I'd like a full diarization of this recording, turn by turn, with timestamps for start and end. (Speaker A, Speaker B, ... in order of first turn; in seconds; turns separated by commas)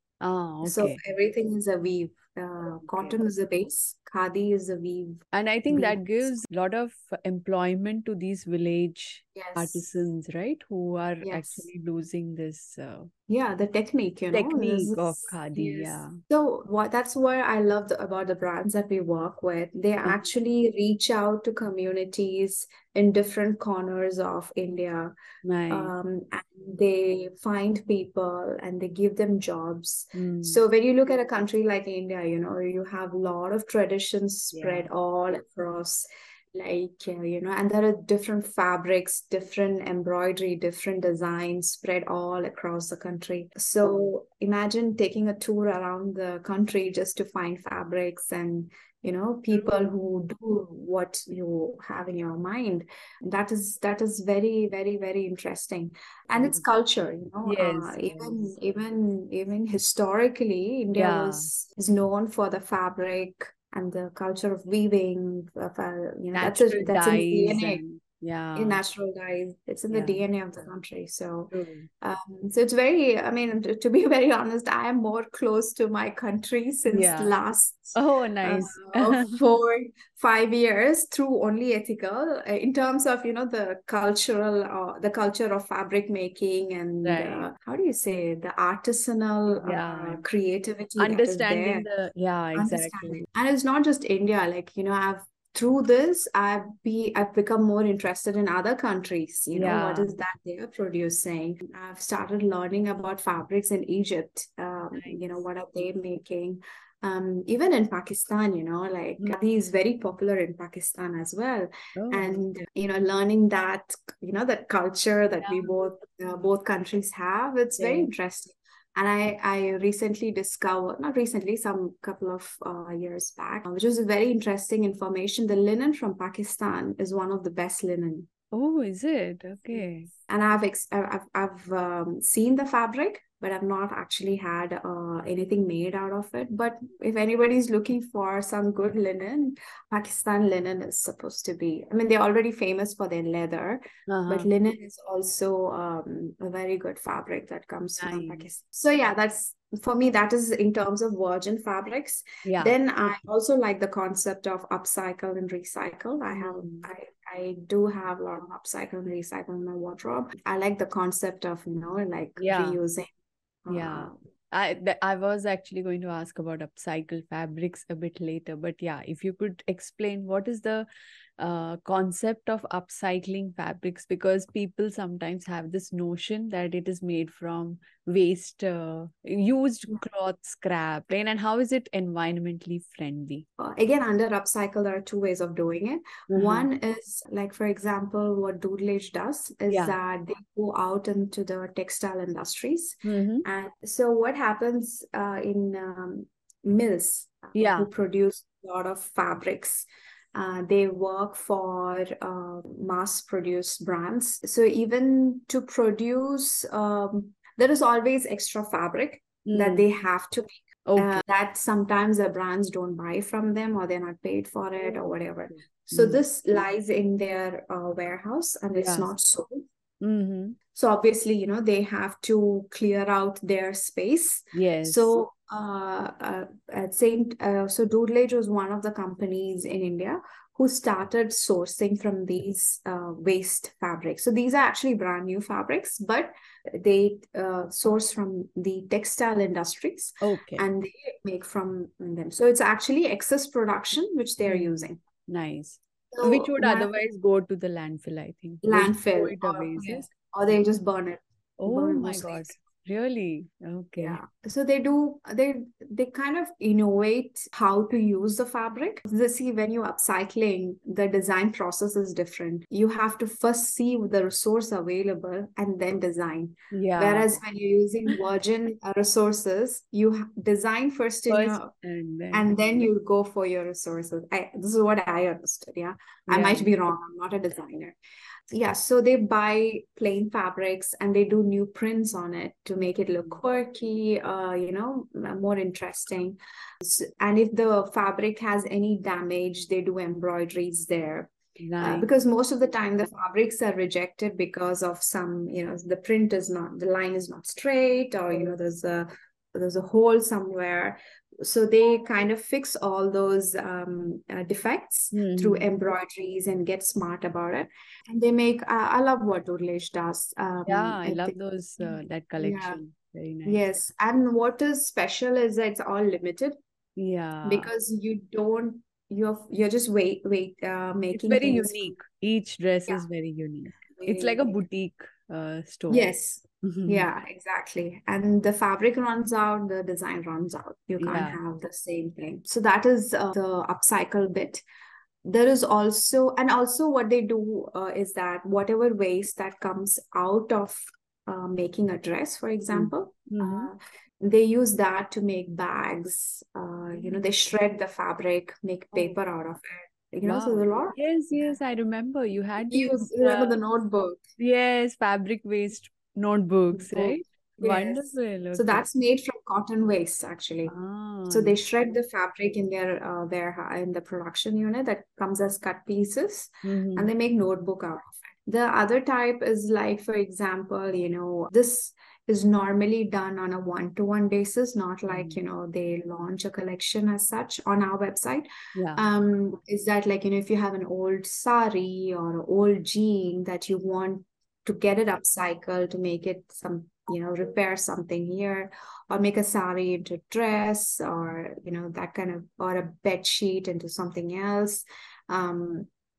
Speaker A: 0.2-1.0, Speaker B: 0.6-6.3, Speaker A: 2.7-3.2, Speaker A: 5.3-13.1, Speaker B: 9.3-9.8, Speaker B: 11.2-11.7, Speaker B: 13.3-25.1, Speaker A: 14.3-16.2, Speaker A: 20.0-20.3, Speaker A: 25.4-25.9, Speaker B: 25.7-67.8, Speaker A: 30.1-30.6, Speaker A: 34.5-34.9, Speaker A: 49.5-49.9, Speaker A: 57.4-58.5, Speaker A: 60.9-61.5, Speaker A: 66.3-68.8, Speaker B: 68.5-91.8, Speaker A: 69.9-70.2, Speaker A: 71.5-71.9, Speaker A: 76.9-77.3, Speaker A: 77.9-79.4, Speaker A: 87.0-87.5, Speaker A: 89.6-90.2, Speaker A: 91.0-93.2, Speaker B: 92.5-128.3, Speaker A: 99.5-100.1, Speaker A: 105.0-105.4, Speaker A: 112.0-112.5, Speaker A: 115.4-115.9, Speaker A: 117.8-118.1, Speaker A: 128.5-130.1, Speaker B: 129.7-163.1, Speaker A: 144.1-144.5, Speaker A: 148.0-148.5, Speaker A: 152.4-152.7, Speaker A: 156.3-156.8, Speaker A: 162.4-162.8, Speaker B: 163.6-164.1, Speaker A: 163.7-170.9, Speaker A: 171.4-183.4, Speaker B: 183.6-219.6, Speaker A: 186.3-186.7, Speaker A: 189.7-189.9, Speaker A: 193.0-193.4, Speaker A: 197.5-197.9, Speaker A: 209.4-209.8, Speaker A: 210.8-211.2, Speaker A: 215.5-216.2, Speaker A: 218.8-219.1, Speaker A: 220.0-220.6, Speaker B: 220.7-245.0, Speaker A: 224.5-225.1, Speaker A: 240.2-240.6, Speaker A: 244.4-250.1, Speaker B: 246.1-246.9, Speaker B: 248.6-252.6, Speaker A: 251.6-254.2, Speaker B: 254.0-271.7, Speaker A: 266.7-267.4, Speaker A: 271.3-272.9, Speaker B: 272.3-277.9, Speaker A: 276.3-276.7, Speaker B: 278.5-312.8, Speaker A: 291.6-292.1, Speaker A: 305.1-305.7, Speaker A: 310.7-313.6, Speaker B: 313.4-316.6, Speaker A: 317.0-317.7, Speaker B: 317.4-321.9, Speaker A: 321.1-327.1, Speaker B: 323.9-324.6, Speaker B: 325.9-334.6, Speaker A: 331.0-331.4, Speaker B: 335.2-351.6, Speaker A: 342.7-343.7, Speaker A: 346.9-347.2, Speaker A: 350.2-353.6, Speaker B: 352.7-354.2, Speaker A: 354.4-358.9, Speaker B: 356.7-360.7, Speaker A: 360.6-361.6, Speaker B: 361.3-395.9, Speaker A: 366.6-367.1, Speaker A: 375.1-375.4, Speaker A: 378.8-379.1